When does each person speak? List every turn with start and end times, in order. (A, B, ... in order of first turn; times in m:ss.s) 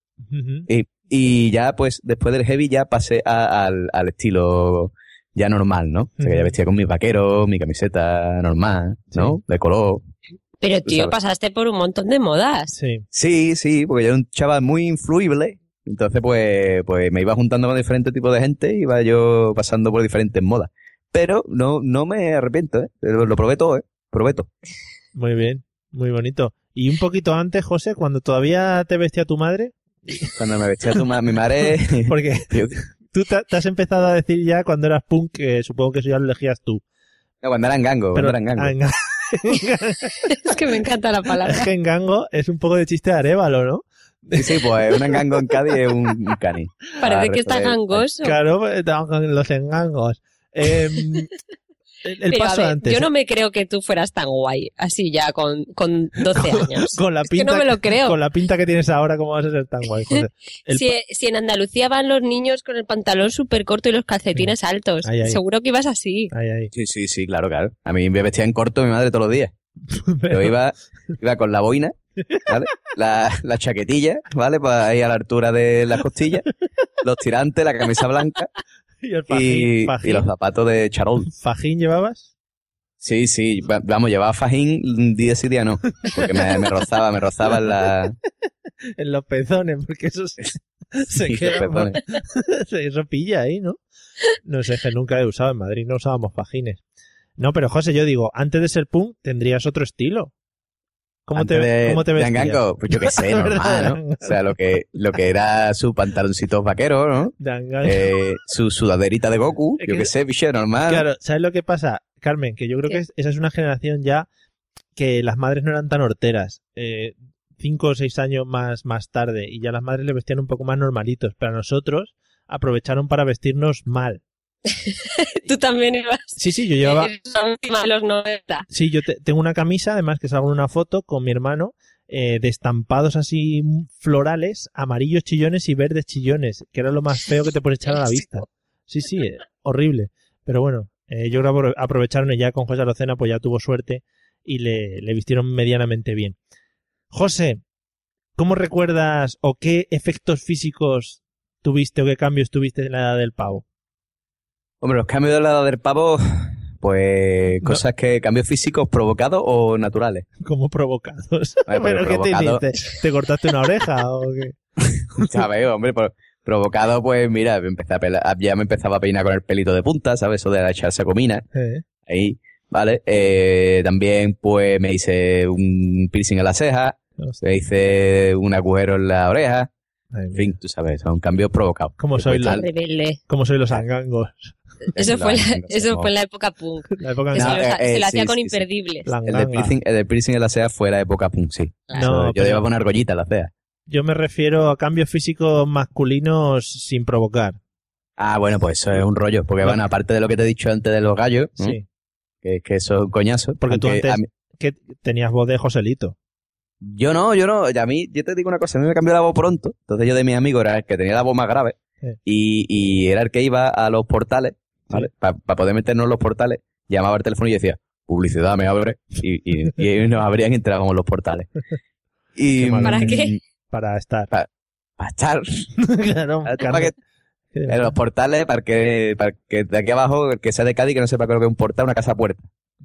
0:00.3-0:00.7 A
0:00.7-0:10.0 B
0:06.2-0:06.5 A
0:09.1-0:09.4 A
0:10.6-0:12.7 C
0:10.8-0:11.1 B
0:12.7-0:13.0 A
0:13.1-0:24.5 B
0:25.1-0:30.4 A
0:30.3-0:32.8 B
0:32.0-0:36.8 A
0:37.4-0:38.7 B
0:38.1-0:40.2 A
0:40.3-0:41.7 C
0:41.4-0:45.2 A
0:44.3-0:48.0 B
0:47.0-0:48.4 C
0:48.2-0:51.3 A
0:52.0-0:53.1 A
0:52.3-0:58.2 C
0:56.3-1:00.9 A
1:00.7-1:06.3 C
1:05.0-1:05.4 A
1:06.3-1:06.7 A
1:06.7-1:09.5 B
1:09.9-1:10.6 A
1:10.3-1:11.9 B
1:12.4-1:16.4 B
1:17.0-1:18.5 B
1:19.0-1:20.3 A
1:19.3-1:21.3 B
1:21.2-1:22.3 A
1:23.0-1:28.2 B
1:26.0-1:26.6 A
1:29.0-1:33.8 A
1:31.1-1:32.0 B
1:34.4-1:36.8 A
1:37.4-1:40.3 A
1:41.3-1:44.4 A
1:41.3-1:51.0 B
1:47.4-1:48.1 A
1:49.8-1:50.1 A
1:50.8-1:54.3 A
1:55.0-2:04.2 A
2:04.8-2:08.7 C
2:06.4-2:07.1 A
2:08.7-2:26.4 A
2:27.1-2:27.6 A
2:28.4-2:33.6 A
2:34.8-2:40.3 B
2:40.4-2:44.6 A
2:41.7-2:42.6 B
2:45.1-2:51.4 B
2:51.5-2:51.8 A
2:52.0-2:59.7 B
3:00.1-3:00.5 A
3:00.3-3:02.6 B
3:02.0-3:02.6 A
3:02.4-3:03.2 C
3:03.3-3:04.5 A
3:04.9-3:06.1 B
3:04.9-3:09.1 C
3:07.0-3:07.6 A
3:07.4-3:08.6 B
3:09.0-3:09.8 A
3:09.2-3:13.5 B
3:11.9-3:12.6 A
3:13.9-3:17.6 A
3:18.2-3:21.8 B
3:21.6-3:21.8 A
3:22.4-3:24.2 B
3:23.6-3:26.2 A
3:26.8-3:41.5 B
3:42.4-3:43.4 B
3:42.5-3:44.3 A
3:42.8-3:43.4 C
3:45.0-3:45.7 B
3:45.8-3:46.9 A
3:46.4-3:46.9 B
3:47.5-3:47.9 A
3:47.7-3:52.5 B